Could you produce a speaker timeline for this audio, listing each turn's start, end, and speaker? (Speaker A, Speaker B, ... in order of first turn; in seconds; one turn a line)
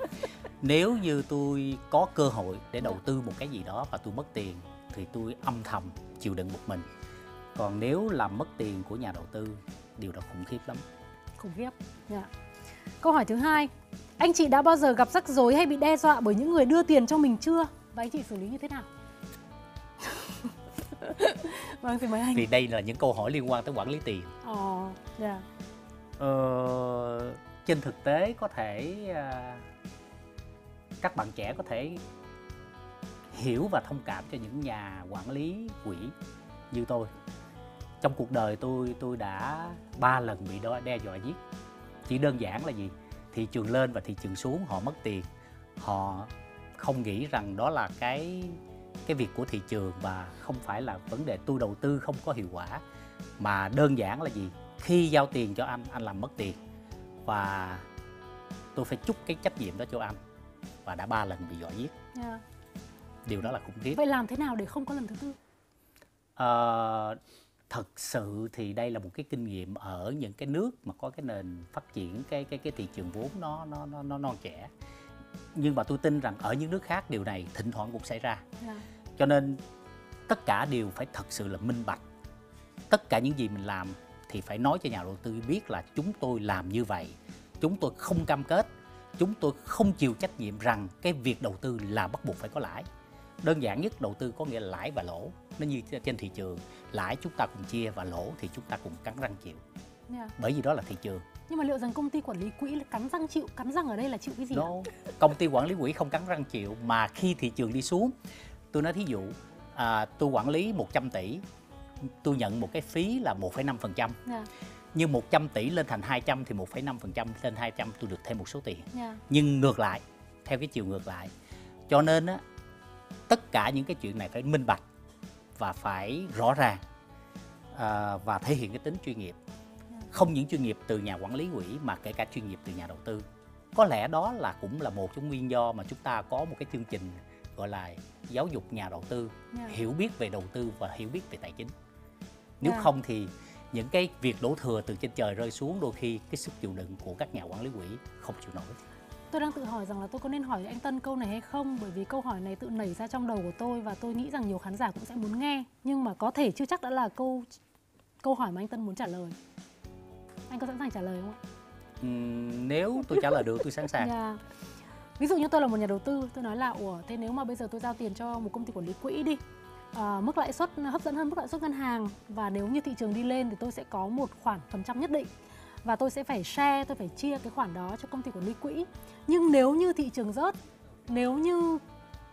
Speaker A: 0.6-6.9
Speaker A: 7.5-10.8
Speaker B: 11.4-12.3
Speaker B: 13.0-18.9
Speaker B: 20.1-20.5
Speaker B: 21.0-22.4
Speaker A: 22.3-24.3
Speaker B: 24.4-25.4
Speaker A: 26.2-29.6
Speaker A: 31.0-32.0
Speaker A: 33.3-36.1
Speaker A: 36.7-37.1
Speaker A: 38.0-41.4
Speaker A: 42.0-45.3
Speaker A: 45.8-52.8
Speaker A: 53.4-56.6
Speaker A: 57.2-57.9
Speaker A: 58.7-60.2
Speaker A: 60.9-61.9
Speaker B: 62.1-62.4
Speaker A: 63.2-64.0
Speaker B: 63.9-65.3
Speaker A: 66.4-67.2
Speaker A: 67.7-74.7
Speaker A: 75.5-78.4
Speaker A: 79.2-79.6
Speaker A: 80.3-82.0
Speaker A: 82.9-92.9
Speaker A: 93.4-99.6
Speaker A: 100.4-101.2
Speaker B: 101.5-104.7
Speaker A: 104.5-108.1
Speaker A: 108.7-111.4
Speaker A: 112.2-114.2
Speaker A: 114.9-121.3
Speaker B: 118.9-119.2
Speaker A: 121.9-122.4
Speaker A: 123.3-124.8
Speaker A: 125.6-126.8
Speaker A: 127.7-129.4
Speaker A: 130.1-141.7
Speaker A: 142.6-148.8
Speaker B: 142.6-142.9
Speaker B: 149.3-157.6
Speaker B: 158.2-159.4
Speaker B: 160.5-161.4
Speaker A: 162.0-164.1
Speaker B: 164.0-164.4
Speaker B: 165.2-169.4
Speaker B: 169.9-175.3
Speaker B: 175.8-180.6
Speaker B: 181.1-181.8